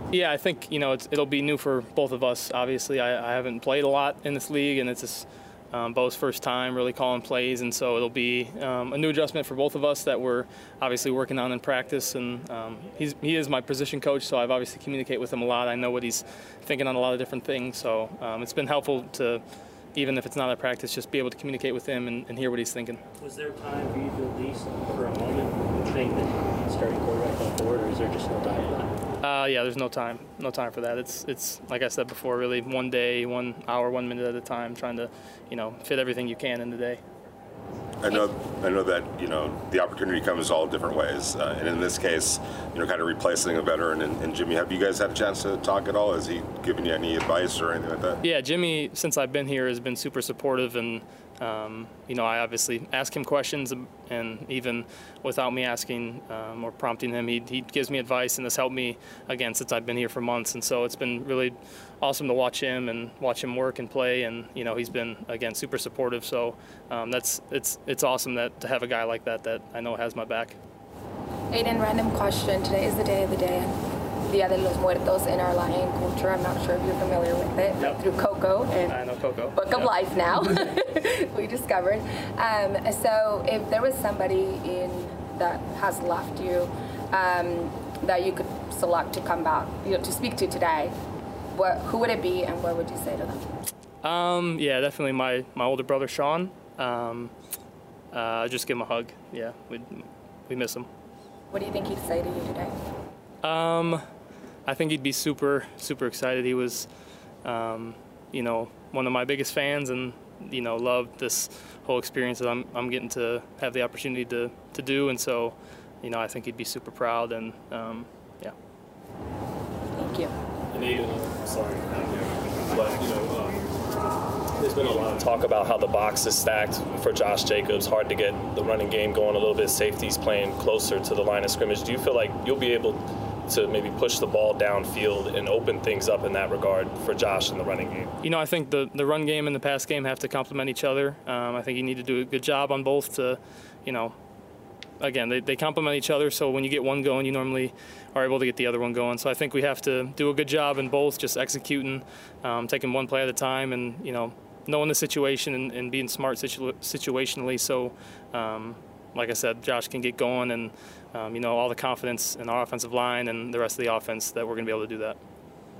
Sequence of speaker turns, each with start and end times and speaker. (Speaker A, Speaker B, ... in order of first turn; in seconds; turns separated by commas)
Speaker A: 0.1-19.4, Speaker A: 19.9-23.0, Speaker B: 23.2-28.9, Speaker A: 29.2-37.0, Speaker C: 38.0-48.2, Speaker A: 48.2-70.6, Speaker D: 71.5-73.7, Speaker D: 74.3-79.0, Speaker A: 78.8-79.9, Speaker D: 79.5-90.9, Speaker D: 91.5-93.4, Speaker A: 94.0-97.3, Speaker A: 98.1-100.9, Speaker D: 101.5-102.7, Speaker A: 103.4-104.0, Speaker A: 104.7-106.9, Speaker A: 107.4-118.5, Speaker D: 119.9-120.3, Speaker E: 120.7-123.6, Speaker E: 124.6-138.1, Speaker A: 138.2-144.1, Speaker A: 145.0-165.2